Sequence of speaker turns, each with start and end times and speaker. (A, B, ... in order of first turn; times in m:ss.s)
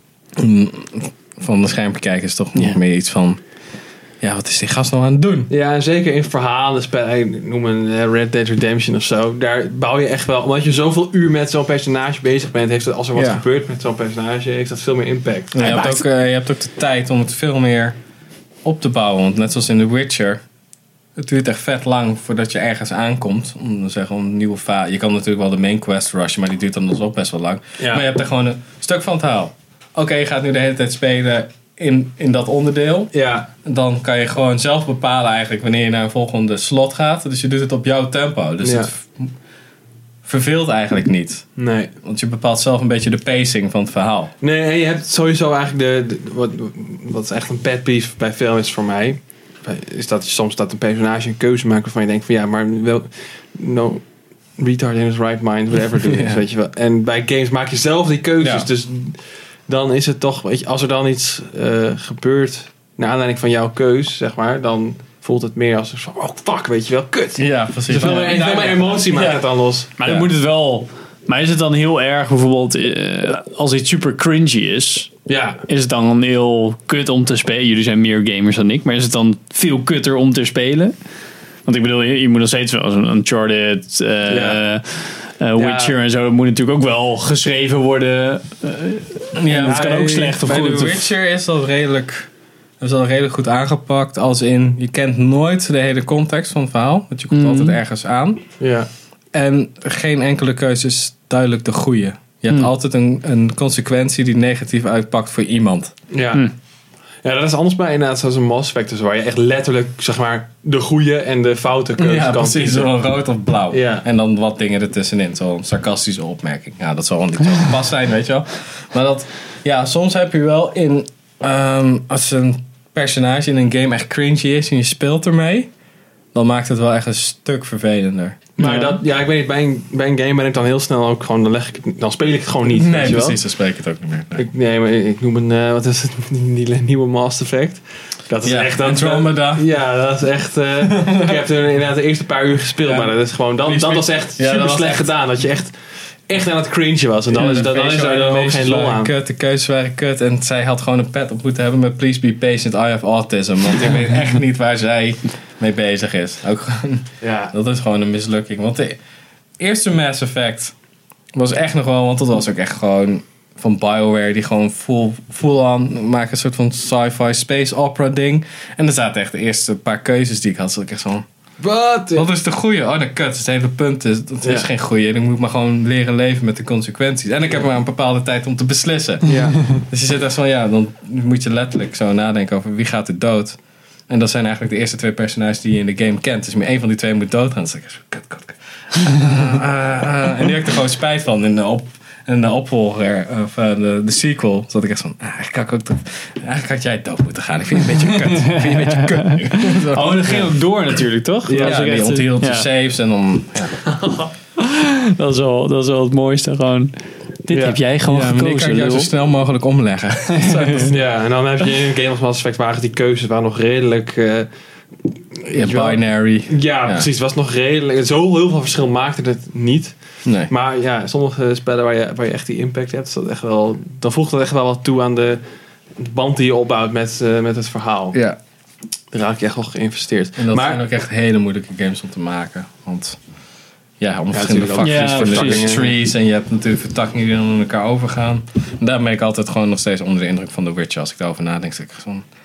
0:00.4-0:03.4 A
0:04.2-0:05.5 A
0:05.5-0:15.9 B
0:13.2-0:13.4 A
0:15.5-0:18.0 A
0:15.6-0:16.0 C
0:18.6-0:20.4 A
0:21.2-0:33.1 A
0:27.8-0:28.1 B
0:33.1-0:33.5 B
0:33.6-0:39.3 A
0:38.6-0:38.9 B
0:40.2-0:41.5 A
0:41.6-0:41.9 B
0:42.0-0:44.3 A
0:44.4-0:54.0 B
0:54.6-1:09.9 B
0:56.0-0:56.4 A
0:58.4-0:58.7 A
1:07.4-1:08.9 A
1:08.0-1:09.4 C
1:10.0-1:15.1 C
1:15.3-1:15.6 B
1:15.7-1:20.9 C
1:21.7-1:31.1 C
1:24.3-1:24.6 B
1:25.6-1:26.0 B
1:29.4-1:32.3 A
1:29.6-1:29.9 B
1:32.8-1:38.4 A
1:37.3-1:37.8 C
1:38.6-1:38.9 B
1:39.3-1:45.9 A
1:46.1-1:46.5 B
1:47.2-1:52.9 B
1:52.0-2:05.7 A
1:53.7-1:54.0 B
2:06.3-2:08.4 A
2:08.6-2:13.4 B
2:08.6-2:09.0 C
2:12.7-2:14.4 A
2:14.4-2:25.7 B
2:18.4-2:19.6 A
2:20.9-2:21.4 A
2:22.8-2:25.1 A
2:26.3-2:29.1 B
2:27.4-2:39.0 A
2:37.2-2:37.5 B
2:39.6-2:40.7 A
2:41.3-2:51.3 A
2:51.6-2:52.3 B
2:52.1-3:03.6 A
2:59.3-2:59.6 B
3:04.1-3:20.5 A
3:18.4-3:22.7 C
3:21.5-3:21.8 B
3:21.6-3:23.8 A
3:24.6-3:26.9 C
3:27.5-3:29.1 C
3:27.5-3:27.8 B
3:28.1-3:31.0 A
3:30.3-3:30.9 C
3:30.9-3:34.5 B
3:35.4-3:40.0 B
3:35.5-3:37.1 A
3:40.2-3:40.5 A
3:40.5-3:45.4 B
3:46.0-3:48.2 B
3:49.1-3:50.8 B
3:50.4-3:53.2 A
3:54.0-4:02.3 A
3:54.3-3:55.9 B
3:54.8-3:55.8 C